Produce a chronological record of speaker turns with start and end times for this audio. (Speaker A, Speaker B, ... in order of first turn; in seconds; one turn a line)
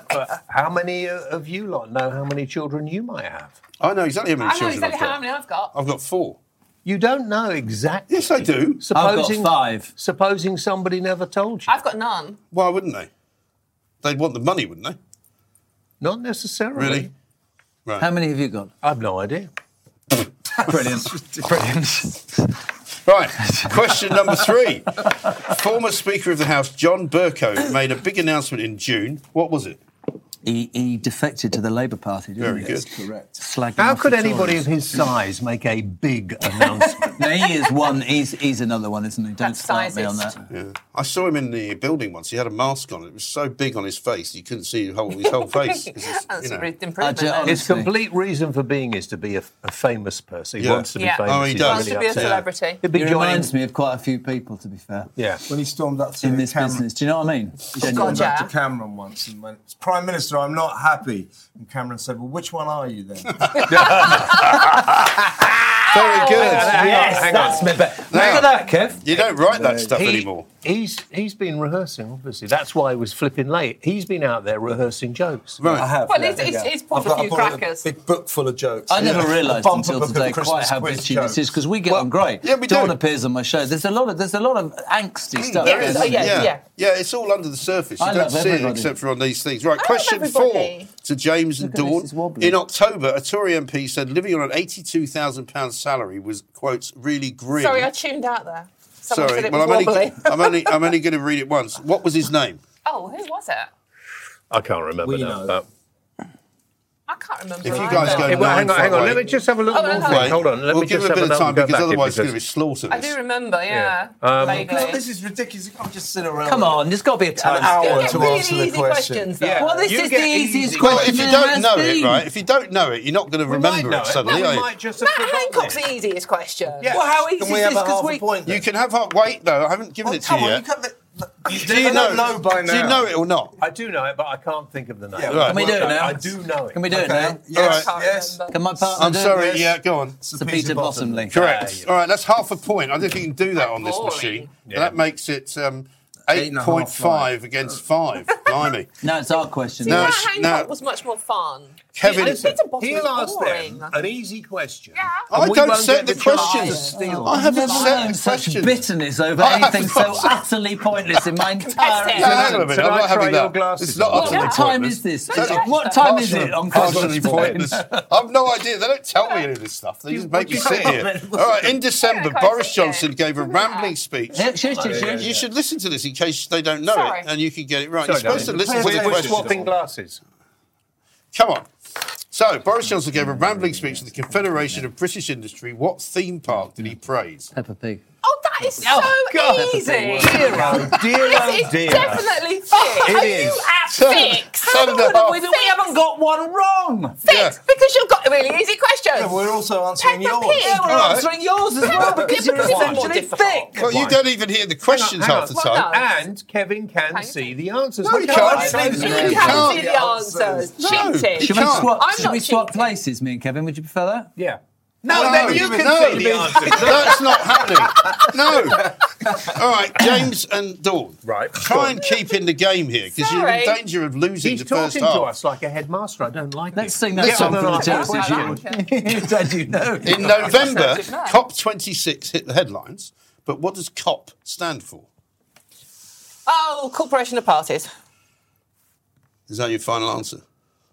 Speaker A: 0.1-3.5
Speaker B: 3.8-5.2
Speaker C: 4.4-5.7
Speaker B: 5.7-6.4
Speaker A: 6.8-11.8
Speaker B: 8.1-8.8
Speaker D: 8.9-9.9
Speaker C: 11.7-12.4
Speaker B: 12.5-13.1
Speaker B: 14.0-15.0
Speaker A: 16.0-17.1
Speaker B: 16.7-17.1
Speaker D: 18.0-18.7
Speaker A: 18.8-19.5
Speaker D: 20.6-22.6
Speaker B: 23.0-29.8
Speaker D: 23.4-24.4
Speaker D: 30.4-35.1
Speaker B: 32.4-32.9
Speaker E: 32.7-33.4
Speaker A: 33.8-37.2
Speaker D: 37.1-40.4
Speaker C: 39.4-40.4
Speaker B: 40.5-46.7
Speaker C: 45.2-47.7
Speaker D: 47.0-47.9
Speaker A: 47.5-53.5
Speaker B: 50.6-52.5
Speaker C: 51.0-52.8
Speaker D: 52.9-55.1
Speaker A: 55.1-55.4
Speaker E: 55.5-56.9
Speaker D: 56.2-58.3
Speaker E: 57.7-64.2
Speaker C: 57.8-58.5
Speaker A: 63.7-64.9
Speaker D: 63.8-69.0
Speaker B: 65.9-67.0
Speaker C: 65.9-67.6
Speaker A: 66.2-67.8
Speaker B: 68.1-70.5
Speaker E: 69.1-70.1
Speaker A: 69.9-75.6
Speaker B: 75.6-75.9
Speaker E: 75.6-81.6
Speaker C: 76.0-77.8
Speaker D: 78.9-86.5
Speaker B: 82.4-83.0
Speaker B: 85.5-97.9
Speaker C: 85.6-86.6
Speaker D: 88.0-88.9
Speaker C: 89.8-90.9
Speaker D: 91.6-92.6
Speaker C: 97.5-100.8
Speaker B: 99.1-102.6
Speaker C: 102.8-103.7
Speaker A: 104.5-105.6
Speaker E: 105.0-105.6
Speaker C: 107.1-108.7
Speaker B: 107.6-109.3
Speaker E: 107.7-109.5
Speaker A: 107.9-112.3
Speaker C: 109.7-110.4
Speaker B: 110.0-113.1
Speaker C: 112.9-115.0
Speaker A: 113.7-114.8
Speaker E: 114.4-116.8
Speaker D: 116.5-118.4
Speaker E: 117.4-119.3
Speaker C: 117.6-120.1
Speaker A: 119.4-121.3
Speaker D: 119.6-122.3
Speaker B: 120.8-124.7
Speaker A: 123.5-125.8
Speaker C: 125.0-127.8
Speaker A: 126.8-127.0
Speaker D: 126.9-128.2
Speaker E: 127.1-128.6
Speaker B: 128.4-130.6
Speaker E: 130.0-133.1
Speaker B: 131.4-133.6
Speaker A: 133.6-136.9
Speaker E: 135.1-136.0
Speaker B: 135.2-135.7
Speaker D: 135.4-137.4
Speaker E: 136.9-138.5
Speaker C: 137.5-138.5
Speaker B: 137.5-137.9
Speaker D: 138.5-139.6
Speaker B: 138.9-140.2
Speaker E: 139.1-141.3
Speaker D: 140.3-141.3
Speaker A: 141.3-141.9
Speaker B: 141.3-148.9
Speaker C: 143.6-144.5
Speaker A: 144.6-145.0
Speaker E: 146.3-147.8
Speaker D: 149.0-150.2
Speaker C: 149.8-154.0
Speaker B: 149.9-150.7
Speaker B: 151.9-152.5
Speaker A: 152.1-157.4
Speaker C: 154.9-158.1
Speaker B: 155.3-158.8
Speaker D: 156.9-162.6
Speaker B: 159.4-160.4
Speaker C: 161.6-162.6
Speaker A: 162.0-164.6
Speaker B: 162.2-174.5
Speaker C: 164.1-164.7
Speaker D: 164.1-168.0
Speaker C: 165.3-166.1
Speaker A: 166.5-167.7
Speaker C: 169.2-169.4
Speaker A: 170.1-171.0
Speaker D: 170.5-171.8
Speaker C: 171.9-173.9
Speaker D: 174.3-175.4
Speaker A: 174.6-175.2
Speaker E: 174.8-175.4
Speaker B: 175.1-179.6
Speaker C: 176.9-177.3
Speaker A: 178.0-180.2
Speaker E: 178.2-179.7
Speaker B: 181.3-181.7
Speaker B: 182.3-187.5
Speaker E: 183.2-184.0
Speaker D: 187.5-188.0
Speaker C: 188.2-195.9
Speaker A: 188.8-193.7
Speaker D: 189.5-191.0
Speaker B: 193.9-195.4
Speaker D: 194.8-197.2
Speaker C: 197.2-199.4
Speaker B: 197.2-197.6
Speaker E: 199.1-201.2
Speaker C: 200.0-201.1
Speaker D: 200.6-203.8
Speaker B: 200.8-201.3
Speaker E: 201.8-202.3
Speaker A: 201.8-203.2
Speaker C: 202.0-203.8
Speaker A: 203.7-204.2
Speaker B: 203.8-205.9
Speaker A: 204.8-209.5
Speaker C: 205.5-206.1
Speaker C: 207.1-207.6
Speaker B: 208.0-209.8
Speaker E: 208.1-211.1
Speaker D: 208.3-209.6
Speaker C: 208.4-212.9
Speaker B: 210.8-211.9
Speaker D: 211.4-214.3
Speaker A: 214.3-217.6
Speaker E: 215.1-217.2
Speaker B: 215.1-225.3
Speaker E: 218.7-219.5
Speaker A: 221.2-221.9
Speaker C: 223.2-223.8
Speaker A: 224.4-228.6
Speaker D: 226.7-230.6
Speaker C: 227.2-229.0
Speaker B: 230.0-235.1
Speaker C: 230.2-231.4
Speaker C: 236.4-237.9
Speaker B: 239.5-240.4